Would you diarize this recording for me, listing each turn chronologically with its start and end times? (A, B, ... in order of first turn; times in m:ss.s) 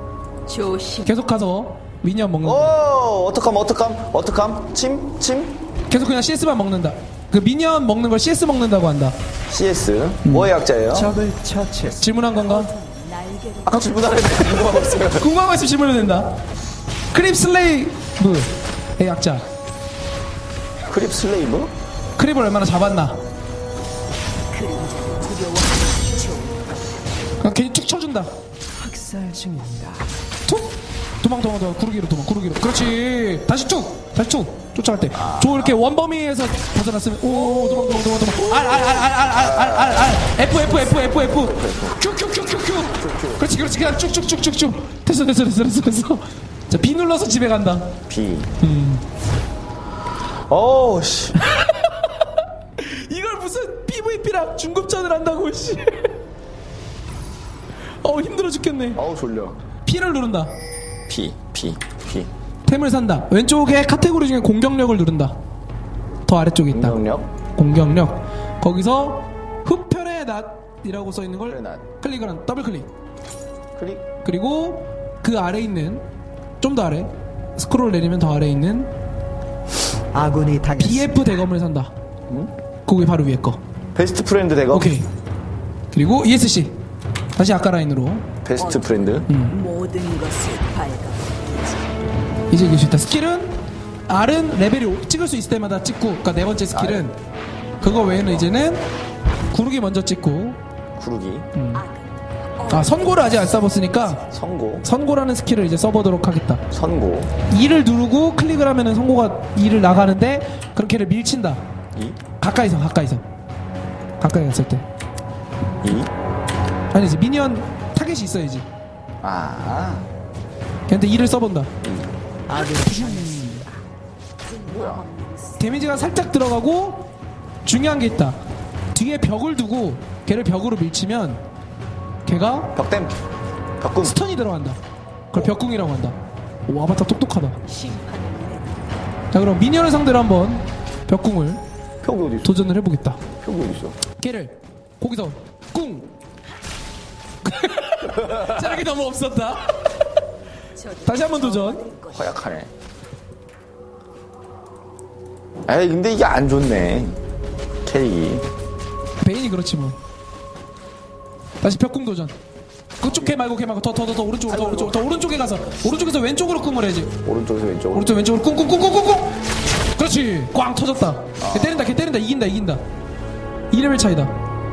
0:00.5-0:01.2 A
0:01.0-0:02.7 B
0:02.4-0:05.6 C
0:05.9-0:09.2 B
0:09.5-0:11.2 C
0:10.3-0:10.5 B
0:10.9-0:12.2 D
0:12.0-0:12.7 B
0:12.3-0:14.4 A
0:13.7-0:15.3 C
0:15.2-0:16.4 B
0:17.1-0:19.4 B
0:20.9-0:21.7 C
0:22.2-0:23.2 B
0:24.5-0:27.2 A
0:27.4-0:28.3 B
0:28.8-0:30.1 D
0:30.5-0:48.0 B
0:35.1-0:35.8 C
0:37.3-0:42.0 C
0:42.9-0:43.5 C
0:48.1-0:48.5 C
0:48.6-0:49.0 B
0:50.5-0:51.4 C
0:52.8-0:56.1 B
0:58.0-0:59.0 B
0:59.0-0:59.6 C
0:59.8-1:00.5 B
1:01.1-1:02.3 C
1:02.7-1:05.4 B
1:06.3-1:07.0 B
1:06.7-1:07.3 C
1:07.6-1:12.9 B
1:11.5-1:11.9 C
1:13.8-1:14.1 C
1:14.2-1:16.0 B
1:16.6-1:18.9 B
1:20.1-1:21.4 D
1:20.8-1:21.9 B
1:22.9-1:23.6 B
1:24.0-1:24.9 C
1:24.7-1:25.1 B
1:25.9-1:26.8 B
1:27.4-1:28.3 B
1:28.4-1:29.3 C
1:28.6-1:31.9 A
1:29.3-1:29.6 B
1:32.5-1:37.2 B
1:36.7-1:37.1 C
1:37.8-1:38.5 C
1:37.8-1:38.9 B
1:39.5-1:40.6 B
1:41.0-1:41.5 C
1:41.6-1:41.8 B
1:41.7-1:44.2 A
1:42.7-1:44.2 B
1:44.2-1:44.9 C
1:44.8-1:46.6 B
1:46.7-1:47.3 C
1:47.5-1:51.6 B
1:52.4-1:53.2 B
1:54.2-1:54.8 B
1:55.8-1:56.1 C
1:56.9-1:58.7 B
1:59.2-2:00.1 C
2:00.9-2:01.7 B
2:01.8-2:02.1 C
2:02.5-2:03.8 D
2:02.6-2:03.6 A
2:04.4-2:06.3 A
2:04.7-2:05.1 C
2:05.6-2:07.1 B
2:07.6-2:08.4 B
2:08.9-2:11.4 B
2:12.3-2:12.8 B
2:12.8-2:13.2 C
2:13.8-2:14.2 C
2:14.0-2:14.8 B
2:15.3-2:16.2 B
2:16.7-2:17.6 B
2:17.6-2:19.1 A
2:19.3-2:21.6 B
2:22.0-2:22.6 C
2:22.4-2:23.2 B
2:23.4-2:24.0 C
2:24.2-2:26.1 B
2:27.4-2:29.9 B
2:30.8-2:32.4 A
2:31.1-2:31.9 B
2:32.1-2:32.7 C
2:35.7-2:37.2 C
2:37.8-2:38.5 C
2:39.2-2:40.0 B
2:41.6-2:42.4 B
2:43.0-2:47.2 B
2:43.0-2:43.4 C
2:44.5-2:45.1 C
2:47.2-2:48.1 C
2:47.9-2:49.4 B
2:50.0-2:52.8 B
2:51.4-2:51.9 C
2:53.7-2:54.3 B